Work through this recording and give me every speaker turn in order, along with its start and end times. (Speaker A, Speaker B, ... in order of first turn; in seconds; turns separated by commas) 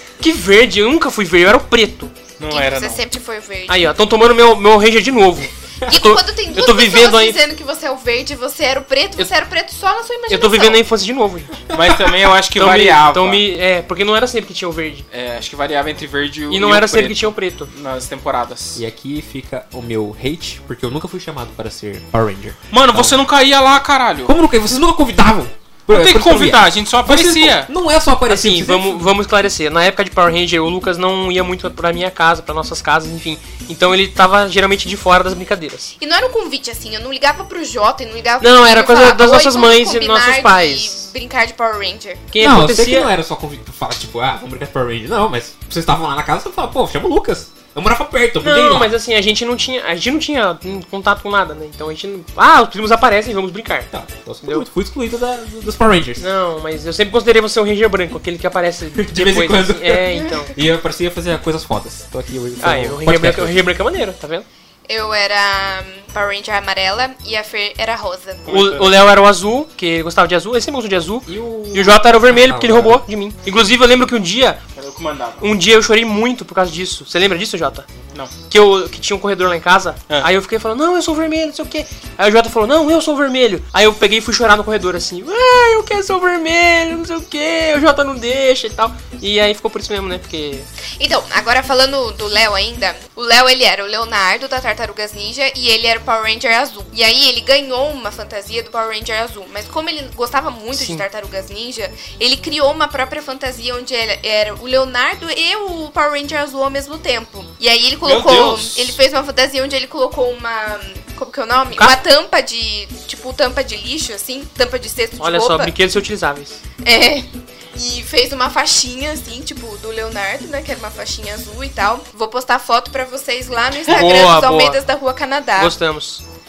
Speaker A: 0.2-2.1, Speaker B: 2.4-3.0, Speaker C: 2.5-3.9, Speaker A: 3.7-7.4, Speaker C: 5.9-10.8, Speaker A: 10.3-11.6, Speaker B: 11.7-13.4, Speaker A: 12.6-15.1, Speaker B: 15.1-18.8, Speaker A: 16.5-17.7, Speaker D: 18.7-23.2, Speaker B: 22.7-24.3, Speaker D: 24.2-29.1, Speaker B: 25.9-27.7, Speaker A: 28.3-35.9, Speaker C: 36.0-42.2, Speaker A: 38.4-41.0, Speaker A: 42.3-43.1, Speaker D: 42.4-48.9, Speaker A: 48.4-53.9, Speaker D: 53.9-56.2, Speaker A: 56.2-60.5, Speaker D: 59.0-63.6, Speaker A: 62.6-64.5, Speaker C: 64.9-68.7, Speaker B: 68.5-68.9, Speaker A: 68.5-74.6, Speaker D: 71.3-73.0, Speaker B: 74.8-75.4, Speaker A: 75.4-77.9, Speaker A: 78.5-90.7, Speaker C: 91.0-115.7, Speaker A: 100.7-101.0, Speaker B: 108.0-109.0, Speaker A: 115.2-116.6, Speaker C: 116.8-125.7, Speaker A: 123.9-124.8, Speaker A: 125.6-126.2